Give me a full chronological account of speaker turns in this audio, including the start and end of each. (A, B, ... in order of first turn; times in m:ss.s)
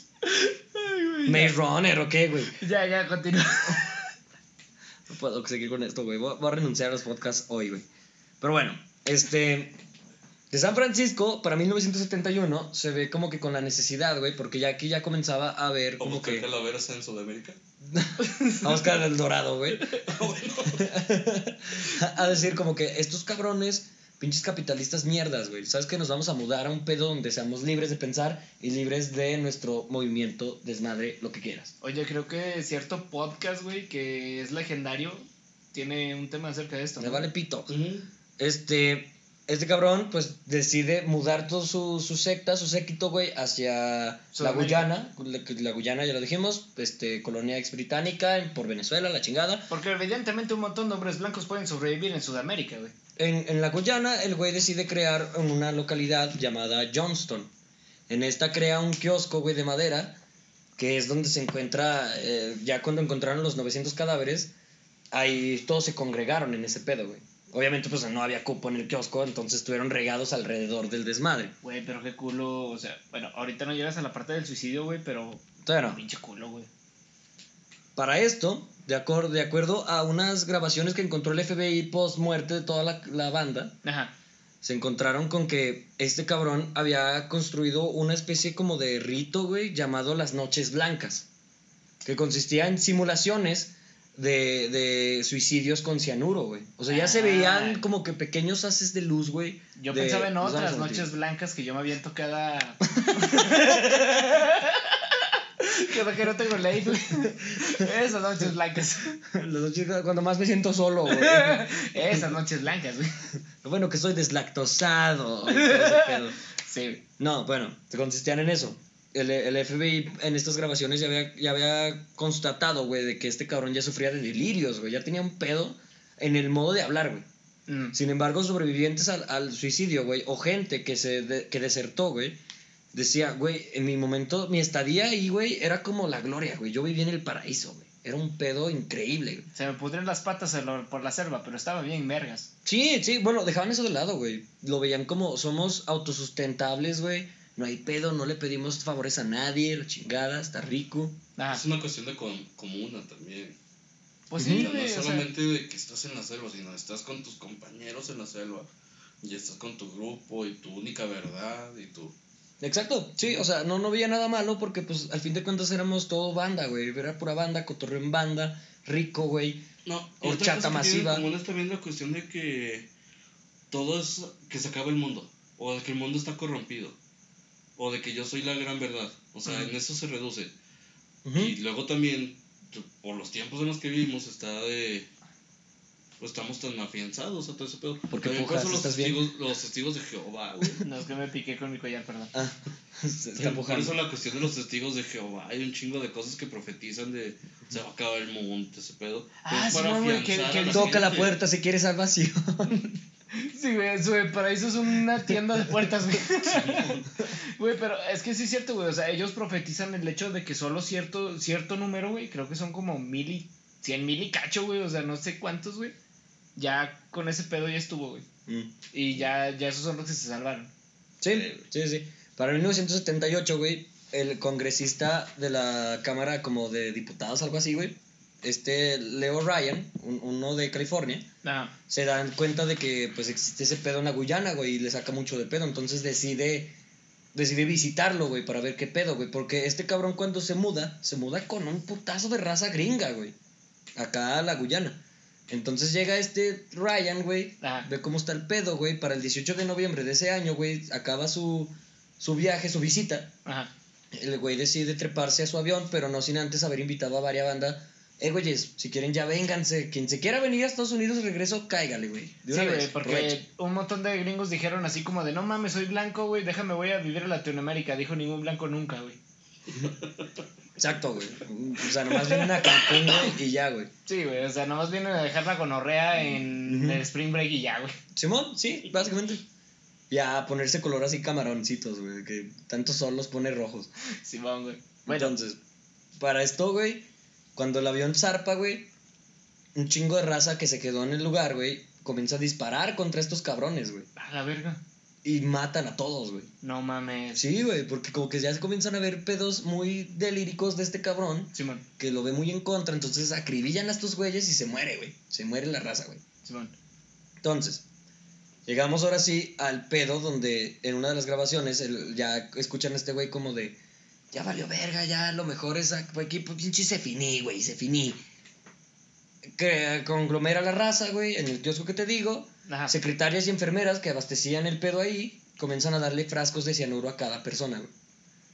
0:00.2-0:01.5 A
0:01.3-0:02.6 B
0:02.6-0:04.1 A
0:05.1-0:07.9 B
0:08.4-0:09.8 B
0:10.5-0:16.5 B
0:16.0-0:17.6 C
0:17.9-0:20.0 B
0:18.2-0:18.8 A
0:20.0-0:20.9 C
0:20.7-0:31.7 B
0:31.8-0:37.2 A
0:37.0-0:37.7 B
0:37.7-0:38.1 C
0:38.4-0:49.7 B
0:44.3-0:44.9 A
0:49.7-0:52.9 A
0:53.2-0:57.5 B
0:58.1-1:00.2 B
1:00.8-1:04.5 B
1:05.1-1:11.5 B
1:11.6-1:16.7 A
1:15.6-1:16.0 B
1:18.0-1:23.8 B
1:23.8-1:24.1 A
1:24.6-1:31.3 B
1:32.0-1:41.1 B
1:36.9-1:37.8 A
1:39.8-1:49.2 A
1:43.1-1:44.0 B
1:49.3-1:52.2 B
1:51.1-1:53.1 A
1:53.6-1:56.4 B
1:55.5-1:57.0 A
1:57.2-2:07.3 B
2:07.7-2:08.0 A
2:07.9-2:12.4 B
2:12.9-2:19.5 B
2:19.5-2:22.5 A
2:22.6-2:31.2 B
2:31.4-2:31.6 A
2:31.5-2:33.6 C
2:34.3-2:35.3 A
2:34.4-2:34.7 B
2:34.4-2:38.7 C
2:39.2-2:42.2 C
2:42.6-2:49.7 B
2:49.8-2:52.9 C
2:50.2-2:51.3 B
2:53.7-2:57.0 C
2:57.8-3:00.5 C
3:01.2-3:01.6 B
3:01.4-3:05.1 C
3:06.2-3:10.9 C
3:08.1-3:09.2 B
3:10.8-3:12.3 A
3:12.3-3:14.0 B
3:13.4-3:21.4 C
3:19.4-3:21.1 A
3:20.7-3:23.0 B
3:23.3-3:27.0 A
3:26.4-3:27.1 C
3:27.6-3:36.0 A
3:36.6-3:38.3 A
3:38.5-3:38.8 B
3:38.9-3:40.7 A
3:41.2-3:51.3 B
3:51.4-3:51.7 A
3:51.9-3:56.7 B
3:57.3-4:03.4 B
4:04.0-4:13.4 B
4:07.6-4:07.9 A
4:13.5-4:13.7 A
4:14.1-4:23.4 B
4:22.5-4:29.2 A
4:29.8-4:30.2 C
4:30.8-4:33.9 B
4:32.1-4:33.3 A
4:34.1-4:38.0 A
4:36.7-4:37.0 B
4:38.2-4:39.4 B
4:40.1-4:43.9 B
4:44.2-4:45.4 A
4:45.1-4:45.6 B
4:46.2-4:48.9 B
4:49.8-4:54.1 B
4:54.2-4:54.8 A
4:55.2-4:56.5 B
4:56.6-4:57.4 A
4:57.4-5:06.2 B
5:01.5-5:01.8 A
5:06.4-5:06.8 A
5:07.4-5:07.8 B
5:08.7-5:13.8 B
5:14.3-5:18.2 B
5:19.5-5:27.9 B
5:22.7-5:23.0 A